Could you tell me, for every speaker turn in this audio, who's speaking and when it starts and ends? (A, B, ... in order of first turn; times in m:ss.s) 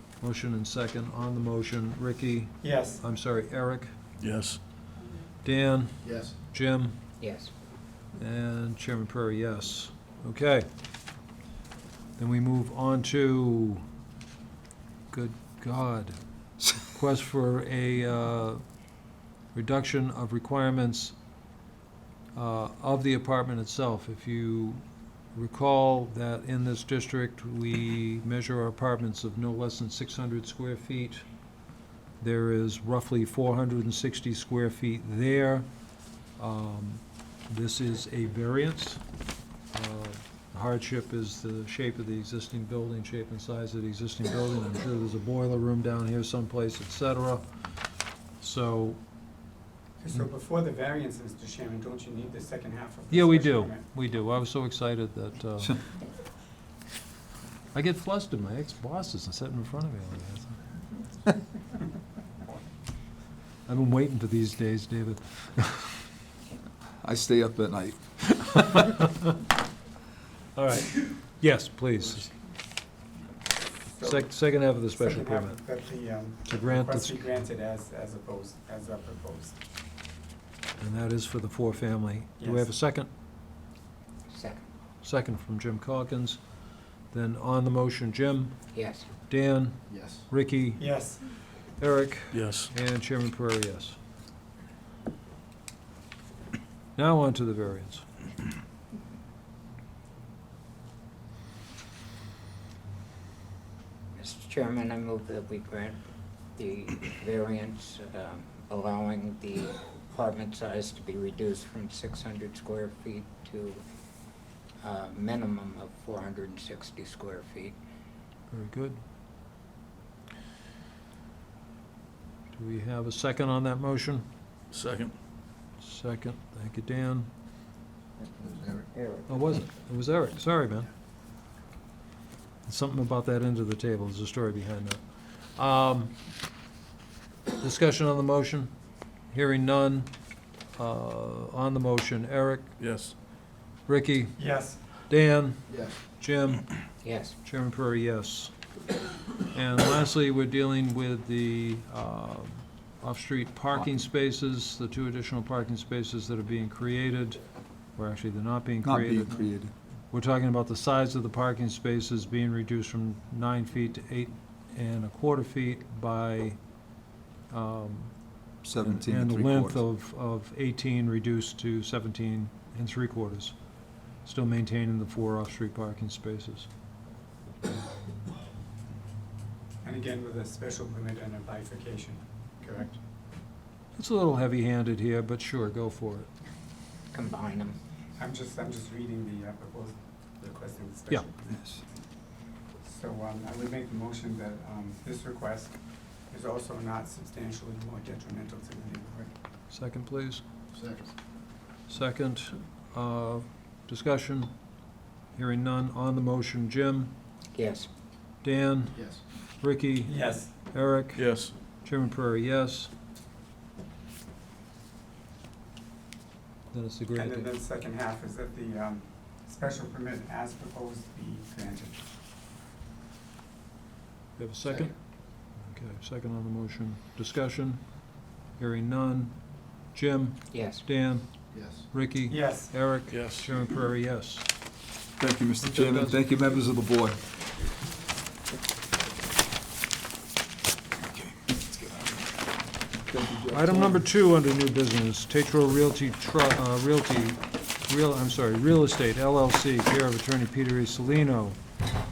0:00.2-0:03.9 A
0:02.6-0:03.0 B
0:04.2-0:04.6 C
0:05.4-0:07.0 A
0:07.2-0:07.5 D
0:08.2-0:10.7 A
0:12.2-0:13.8 A
0:15.1-0:16.2 A
0:16.8-0:18.6 A
0:19.5-0:21.1 A
0:22.4-0:24.8 A
0:25.3-0:31.2 A
0:32.2-0:35.7 A
0:36.4-0:39.0 A
0:39.7-0:47.4 A
0:48.4-0:49.0 A
0:50.0-0:53.8 B
0:53.1-0:55.8 A
0:57.7-1:00.6 A
1:03.7-1:05.9 A
1:07.0-1:09.1 E
1:10.5-1:12.3 A
1:14.0-1:14.3 B
1:14.0-1:15.6 A
1:14.9-1:19.5 B
1:16.4-1:17.2 A
1:20.8-1:23.1 A
1:22.4-1:22.7 B
1:24.3-1:24.6 D
1:25.0-1:26.4 A
1:27.1-1:28.7 A
1:28.7-1:29.0 D
1:29.3-1:30.8 A
1:30.8-1:31.2 B
1:31.8-1:34.0 A
1:32.3-1:32.7 C
1:37.0-1:38.0 A
1:44.2-1:46.0 D
1:46.6-1:53.8 D
1:54.8-1:57.8 D
1:58.5-1:59.0 A
2:02.5-2:04.2 A
2:04.7-2:05.1 C
2:05.8-2:07.3 A
2:09.3-2:10.9 A
2:12.6-2:16.1 A
2:17.6-2:18.7 A
2:19.3-2:20.1 A
2:20.8-2:22.7 A
2:22.8-2:23.1 C
2:23.9-2:24.4 A
2:24.4-2:24.8 B
2:25.1-2:26.9 A
2:27.0-2:27.3 D
2:27.4-2:28.5 A
2:29.5-2:37.4 A
2:38.0-2:39.5 A
2:38.8-2:39.7 E
2:40.1-2:46.6 A
2:47.5-2:48.1 A
2:48.6-2:49.8 E
2:48.8-2:53.6 A
2:54.2-2:56.7 A
2:59.8-3:03.0 B
3:04.0-3:06.3 A
3:07.1-3:07.8 D
3:08.2-3:11.6 B
3:12.8-3:15.7 B
3:16.3-3:19.3 B
3:19.7-3:20.4 A
3:21.9-3:24.5 A
3:25.3-3:27.1 A
3:27.5-3:27.9 D
3:28.4-3:31.2 A
3:30.0-3:30.5 B
3:31.2-3:31.5 C
3:31.8-3:32.9 A
3:36.7-3:37.5 A
3:37.2-3:42.0 B
3:44.4-3:44.9 A
3:45.6-3:47.8 A
3:48.6-3:49.4 A
3:49.9-3:51.2 A
3:50.5-3:50.8 D
3:51.5-3:51.8 E
3:51.9-3:54.5 A
3:52.3-3:52.7 B
3:53.1-3:53.5 C
3:55.2-3:57.2 E
3:55.6-3:56.2 A
4:01.2-4:02.0 E
4:03.1-4:04.0 E
4:03.5-4:11.6 A